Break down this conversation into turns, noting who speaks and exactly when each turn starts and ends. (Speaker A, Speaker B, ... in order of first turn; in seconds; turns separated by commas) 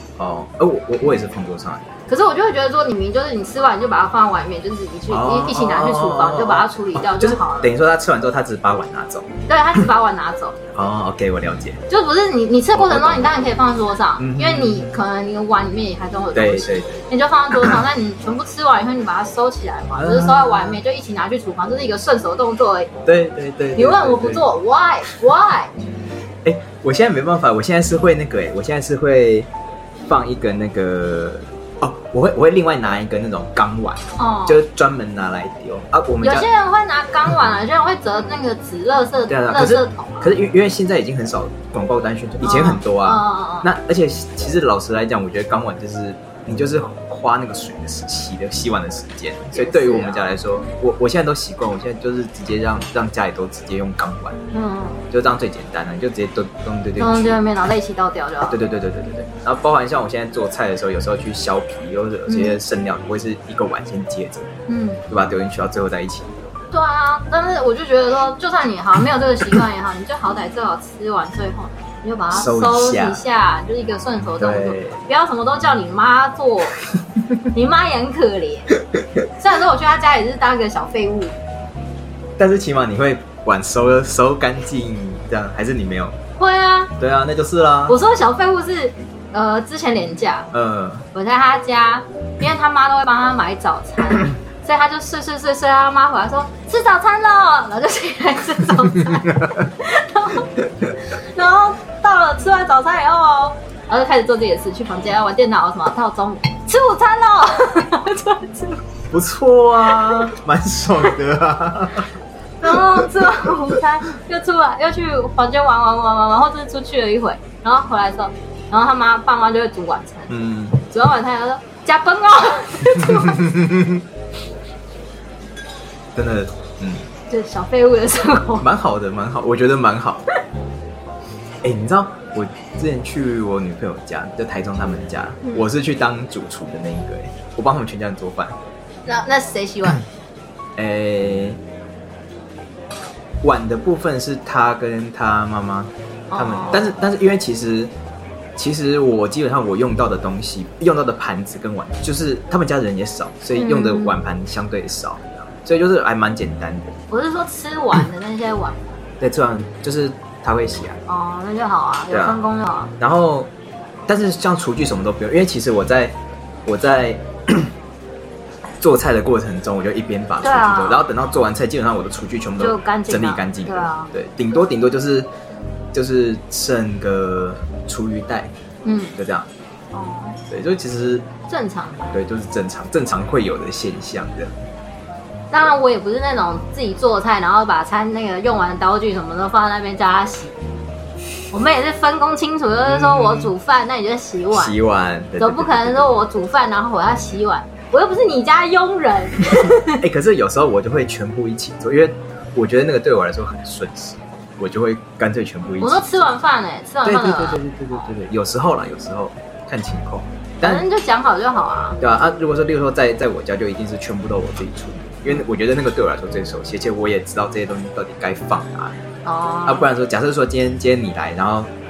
Speaker A: 0.2-1.9, Speaker B: 2.1-7.7, Speaker A: 5.1-9.3, Speaker B: 9.5-10.6, Speaker A: 10.7-11.8, Speaker B: 11.9-22.9, Speaker A: 12.7-13.5, Speaker A: 14.2-14.9, Speaker A: 16.3-17.0, Speaker A: 19.9-20.8, Speaker A: 23.1-24.4, Speaker B: 23.8-25.7, Speaker A: 26.4-29.5, Speaker A: 30.1-36.5, Speaker B: 34.2-34.6, Speaker B: 36.2-40.3, Speaker A: 39.3-54.4, Speaker B: 42.4-43.7, Speaker B: 49.5-50.4, Speaker B: 54.5-55.0, Speaker A: 55.1-57.4, Speaker B: 57.0-58.6, Speaker A: 58.4-64.5, Speaker B: 62.3-62.6, Speaker B: 64.7-65.0, Speaker A: 65.1-66.6, Speaker B: 66.7-76.7, Speaker A: 72.3-73.2, Speaker A: 74.4-75.0, Speaker B: 77.5-78.7, Speaker B: 79.4-81.3, Speaker A: 82.4-86.2, Speaker B: 86.4-86.9, Speaker A: 87.0-88.0, Speaker B: 87.9-90.5, Speaker A: 90.5-91.0, Speaker B: 91.1-100.5, Speaker A: 99.3-99.7, Speaker B: 101.1-108.8, Speaker A: 109.1-112.1, Speaker B: 109.9-110.3, Speaker B: 112.6-120.3, Speaker A: 112.7-113.5, Speaker A: 120.3-120.8, Speaker B: 120.8-123.5, Speaker A: 123.0-124.0, Speaker A: 126.2-127.1, Speaker B: 127.3-128.7, Speaker A: 128.6-130.3, Speaker A: 131.6-138.6, Speaker B: 139.1-140.0, Speaker A: 140.8-141.6, Speaker A: 143.4-147.9, Speaker B: 146.3-147.0, Speaker A: 148.6-156.9, Speaker B: 153.6-154.1, Speaker B: 157.1-158.9, Speaker A: 159.2-161.0, Speaker B: 161.1-162.9, Speaker A: 162.1-162.4, Speaker A: 163.0-163.5, Speaker A: 164.1-166.1, Speaker A: 166.7-167.7, Speaker A: 168.8-175.3, Speaker B: 170.4-171.1, Speaker B: 172.6-174.1, Speaker A: 175.9-178.5, Speaker B: 178.8-179.1, Speaker A: 179.2-179.5, Speaker B: 179.9-180.4, Speaker A: 180.5-181.2, Speaker B: 181.5-182.1, Speaker A: 182.1-184.5, Speaker B: 185.5-190.6, Speaker B: 191.5-194.8, Speaker A: 192.8-193.5, Speaker A: 194.5-196.2, Speaker B: 195.4-200.0, Speaker A: 199.8-206.2, Speaker B: 205.8-208.1, Speaker A: 207.0-210.8, Speaker B: 210.6-212.0, Speaker A: 212.0-219.0, Speaker B: 219.2-219.9, Speaker A: 219.7-221.7